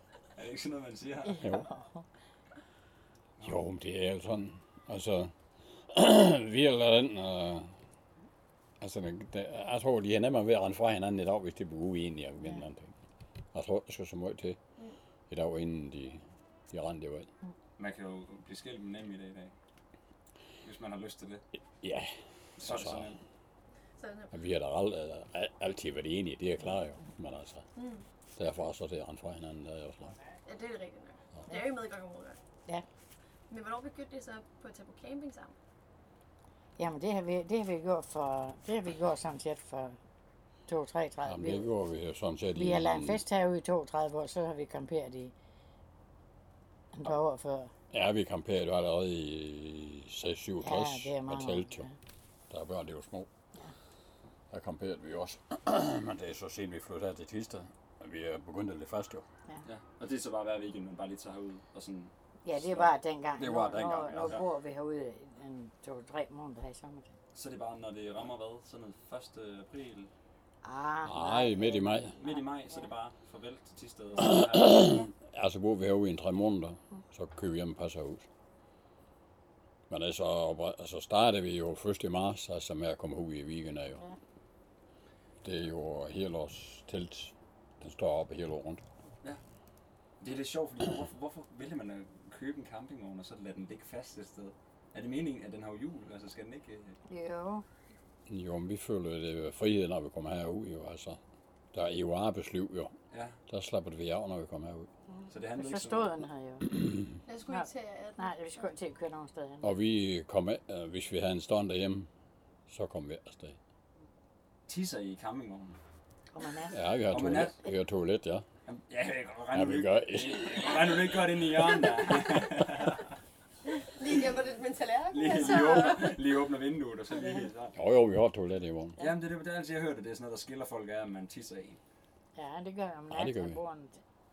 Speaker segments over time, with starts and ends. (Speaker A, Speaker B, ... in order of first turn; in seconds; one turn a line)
Speaker A: 0.3-1.4
Speaker B: 1.2-2.0
Speaker C: 3.4-7.7
Speaker C: 8.8-12.9
Speaker C: 13.5-14.6
Speaker C: 15.3-17.3
Speaker A: 17.8-19.5
Speaker A: 20.6-21.4
Speaker C: 21.8-22.1
Speaker A: 22.6-23.2
Speaker C: 22.6-23.1
Speaker D: 24.0-24.3
Speaker C: 24.3-27.6
Speaker D: 27.8-28.0
Speaker C: 28.4-30.2
Speaker D: 30.4-32.4
Speaker B: 31.5-31.8
Speaker D: 33.5-35.5
Speaker B: 36.8-40.0
Speaker B: 40.7-41.7
Speaker C: 41.2-43.2
Speaker B: 42.5-45.3
Speaker B: 46.9-47.7
Speaker C: 47.9-51.9
Speaker B: 50.6-51.9
Speaker C: 52.5-53.3
Speaker C: 54.5-59.2
Speaker A: 59.6-62.9
Speaker B: 62.4-67.2
Speaker C: 63.4-64.4
Speaker A: 67.3-70.1
Speaker B: 70.6-72.9
Speaker C: 71.0-72.2
Speaker A: 72.1-75.0
Speaker C: 74.2-78.3
Speaker C: 79.9-84.0
Speaker C: 85.4-88.8
Speaker A: 90.2-97.0
Speaker B: 97.1-97.6
Speaker C: 98.3-101.2
Speaker C: 101.7-102.9
Speaker A: 103.1-103.4
Speaker C: 103.5-104.9
Speaker B: 105.1-106.8
Speaker A: 105.3-106.2
Speaker B: 107.3-109.7
Speaker D: 107.5-108.3
Speaker C: 109.6-112.1
Speaker C: 112.7-113.6
Speaker A: 114.7-115.8
Speaker B: 116.3-116.8
Speaker C: 116.7-118.4
Speaker A: 117.1-117.6
Speaker A: 118.7-123.2
Speaker C: 119.5-121.0
Speaker D: 124.2-126.1
Speaker A: 125.1-127.8
Speaker C: 127.7-129.0
Speaker A: 129.0-131.8
Speaker B: 132.3-134.0
Speaker C: 133.1-133.6